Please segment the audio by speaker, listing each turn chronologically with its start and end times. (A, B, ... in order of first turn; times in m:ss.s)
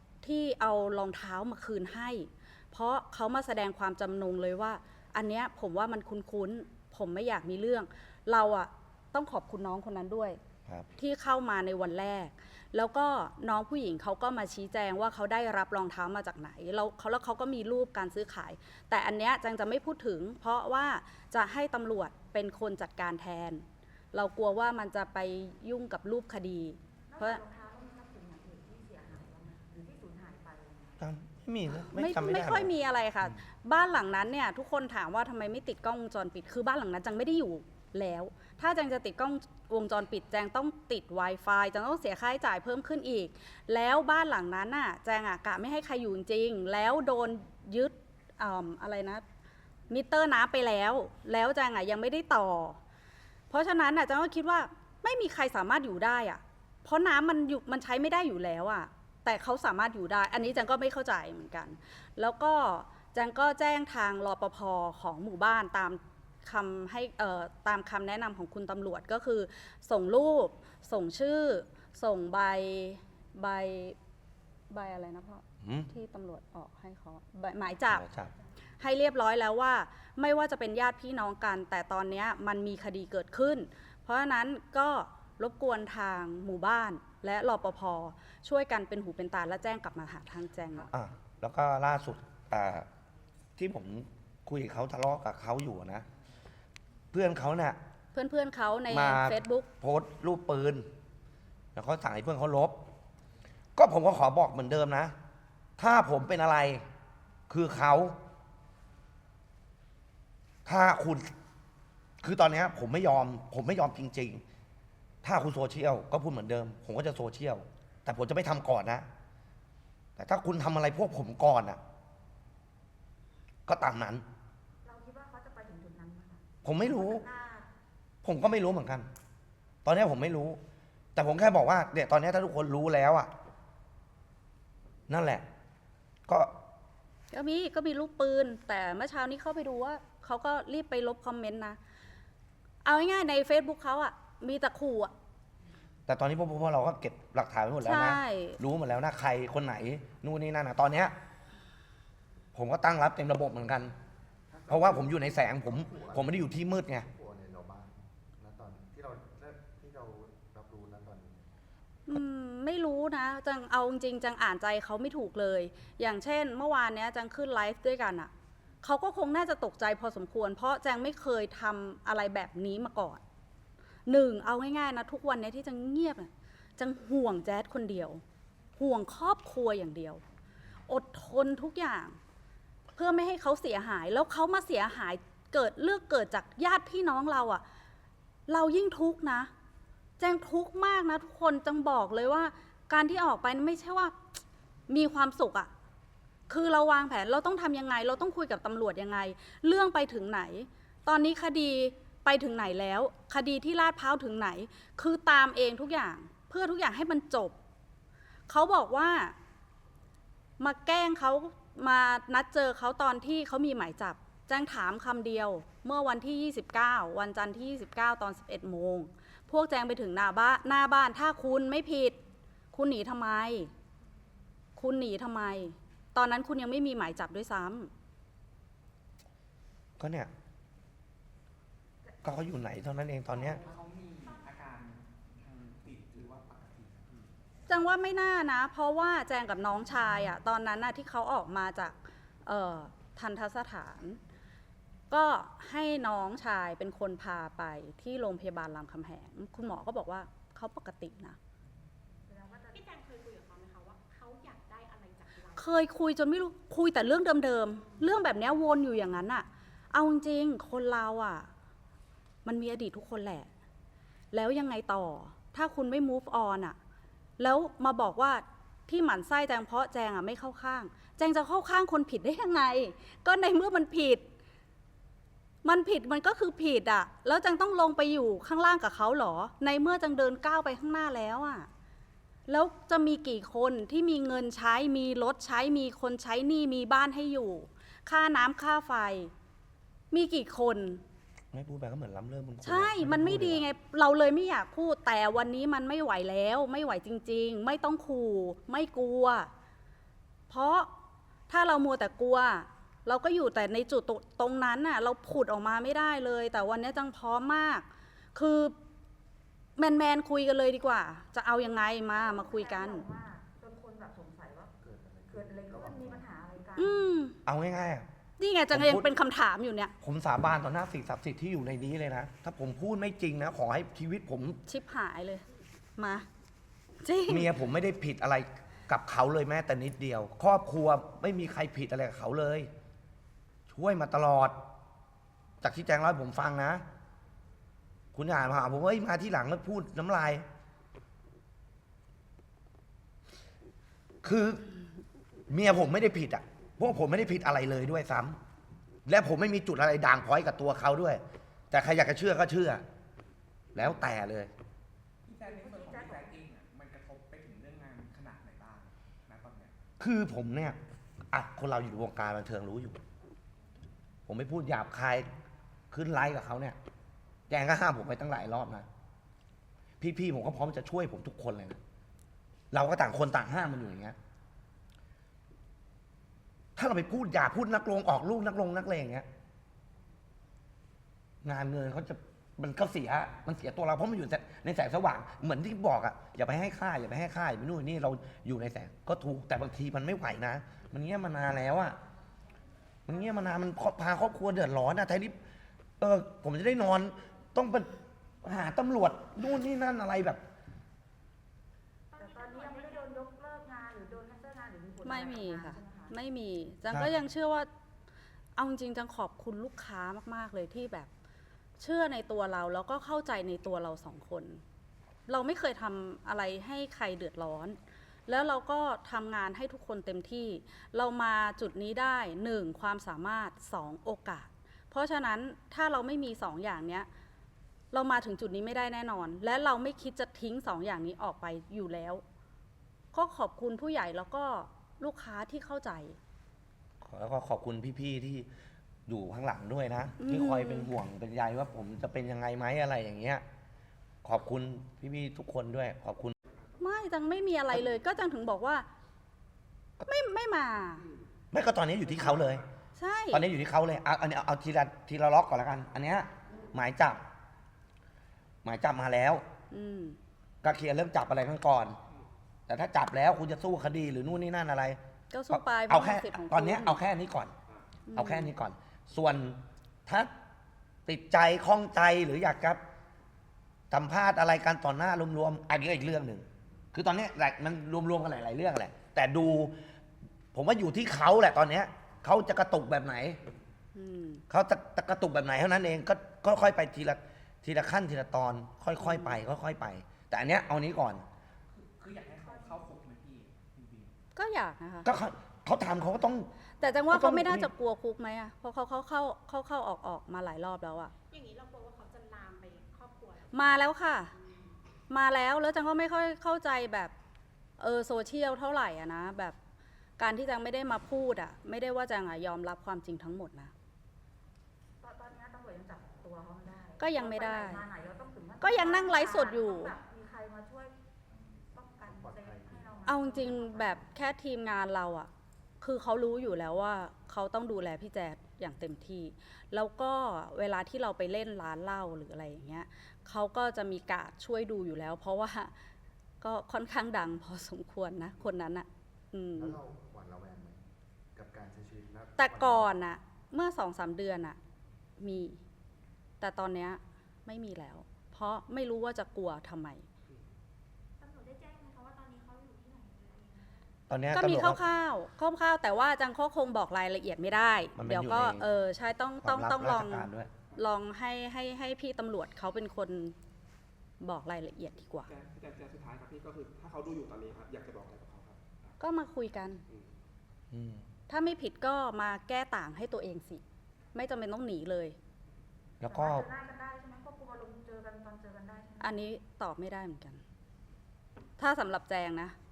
0:00.2-0:10.4 A
0:11.0-0:27.4 A
0:27.1-0:31.0 B
0:31.0-0:32.7 C
0:31.9-0:49.2 A
0:49.9-0:52.8 A
0:53.5-1:14.0 A
1:14.7-1:18.0 A
1:15.6-1:15.9 C
1:17.9-1:18.3 C
1:18.8-1:30.9 A
1:30.9-1:32.9 C
1:33.6-1:36.1 C
1:37.1-1:37.8 C
1:38.1-1:39.7 A
1:38.9-1:40.9 C
1:41.8-1:42.8 C
1:43.8-1:45.2 C
1:45.8-1:46.8 C
1:47.5-1:48.2 C
1:50.7-1:51.3 C
1:52.2-1:54.4 C
1:55.2-1:59.1 C
2:00.2-2:01.8 C
2:03.7-2:04.2 C
2:04.8-2:07.7 B
2:06.6-2:07.2 C
2:08.2-2:09.1 C
2:09.8-2:10.6 C
2:11.2-2:13.3 C
2:15.1-2:15.5 C
2:16.3-2:16.5 C
2:17.3-2:21.8 A
2:22.8-2:25.1 A
2:26.1-2:31.1 C
2:27.8-2:28.6 A
2:32.5-2:34.0 C
2:34.5-2:41.4 D
2:34.7-2:37.1 C
2:42.1-2:48.3 A
2:48.8-2:53.2 A
2:54.1-2:58.2 A
2:58.8-3:00.2 A
3:00.9-3:02.2 A
3:03.0-3:07.6 A
3:08.5-3:09.5 A
3:10.2-3:14.2 A
3:14.9-3:15.7 A
3:16.5-3:27.6 A
3:28.5-3:29.4 A
3:30.6-3:42.2 A
3:42.7-3:43.7 A
3:44.8-3:47.9 A
3:50.0-3:50.3 C
3:52.2-3:53.6 C
3:53.3-3:57.3 E
3:57.7-4:04.2 A
4:05.1-4:11.4 A
4:12.3-4:12.8 B
4:12.7-4:15.8 F
4:15.6-4:21.5 A
4:22.4-4:23.5 A
4:24.3-4:26.8 A
4:27.4-4:34.3 A
4:35.6-4:41.7 A
4:42.5-4:49.3 A
4:50.1-4:51.0 A
4:51.5-4:53.6 C
4:52.6-4:59.5 A
5:00.5-5:00.9 A
5:01.5-5:08.8 A
5:09.8-5:13.0 A
5:12.1-5:14.8 B
5:14.8-5:16.3 D
5:15.3-5:17.0 B
5:16.8-5:17.4 A
5:17.4-5:18.1 C
5:18.4-5:19.9 A
5:18.7-5:19.1 C
5:20.0-5:24.6 C
5:24.7-5:25.4 A
5:26.0-5:26.3 A
5:27.0-5:27.5 A
5:27.3-5:32.7 C
5:33.7-5:34.6 C
5:35.6-5:36.8 C
5:38.1-5:40.4 C
5:44.2-5:44.7 C
5:45.5-5:48.4 C
5:49.1-5:52.8 C
5:53.7-5:54.5 C
5:55.3-5:59.7 E
5:55.4-5:56.4 B
6:00.0-6:00.8 C
6:01.3-6:03.0 C
6:04.3-6:05.3 C
6:05.9-6:06.8 C
6:07.5-6:08.9 C
6:10.0-6:11.8 C
6:12.7-6:14.2 C
6:16.8-6:19.3 C
6:21.4-6:32.0 C
6:33.1-6:35.4 C
6:36.0-6:40.4 C
6:42.1-6:43.1 F
6:42.2-6:46.1 B
6:45.0-6:47.7 A
6:48.6-6:51.1 A
6:51.8-6:54.6 A
6:55.3-7:07.1 A
7:07.9-7:12.2 A
7:13.1-7:16.2 A
7:17.0-7:18.5 C
7:19.1-7:23.4 C
7:20.2-7:20.9 A
7:24.2-7:26.4 C
7:26.8-7:28.9 A
7:30.0-7:31.0 A
7:31.5-7:32.6 C
7:33.0-7:33.4 A
7:33.3-7:37.2 C
7:38.6-7:39.4 C
7:39.7-7:40.2 A
7:40.6-7:42.0 C
7:42.7-7:45.0 C
7:45.3-7:47.0 A
7:45.5-7:47.5 C
7:48.1-7:48.5 A
7:48.1-7:50.3 C
7:51.1-7:52.8 C
7:53.9-7:59.8 C
8:00.5-8:03.4 C
8:04.0-8:04.4 A
8:04.5-8:11.3 C
8:09.0-8:09.4 A
8:11.7-8:14.1 E
8:12.4-8:12.9 B
8:14.4-8:15.1 A
8:15.0-8:16.5 C
8:16.8-8:21.1 A
8:17.1-8:17.7 C
8:21.3-8:23.6 F
8:23.5-8:24.3 A
8:25.1-8:27.1 A
8:27.8-8:29.6 A
8:30.2-8:33.7 A
8:35.0-8:40.9 B
8:37.0-8:37.8 A
8:38.6-8:40.0 A
8:41.7-8:44.0 B
8:42.0-8:43.0 D
8:43.1-8:45.3 A
8:45.8-8:55.7 A
8:56.4-8:59.8 A
8:59.6-9:00.8 D
9:01.4-9:02.9 D
9:02.4-9:04.6 A
9:05.2-9:05.6 A
9:06.4-9:10.1 A
9:11.3-9:13.6 B
9:14.1-9:14.8 C
9:14.3-9:23.4 A
9:18.0-9:18.6 C
9:19.4-9:20.5 C
9:24.2-9:25.3 A
9:25.3-9:29.0 E
9:29.0-9:29.8 A
9:30.7-9:31.0 C
9:31.3-9:33.6 A
9:34.2-9:35.2 A
9:36.0-9:36.5 C
9:36.1-9:39.2 B
9:39.0-9:40.4 A
9:41.6-9:42.6 A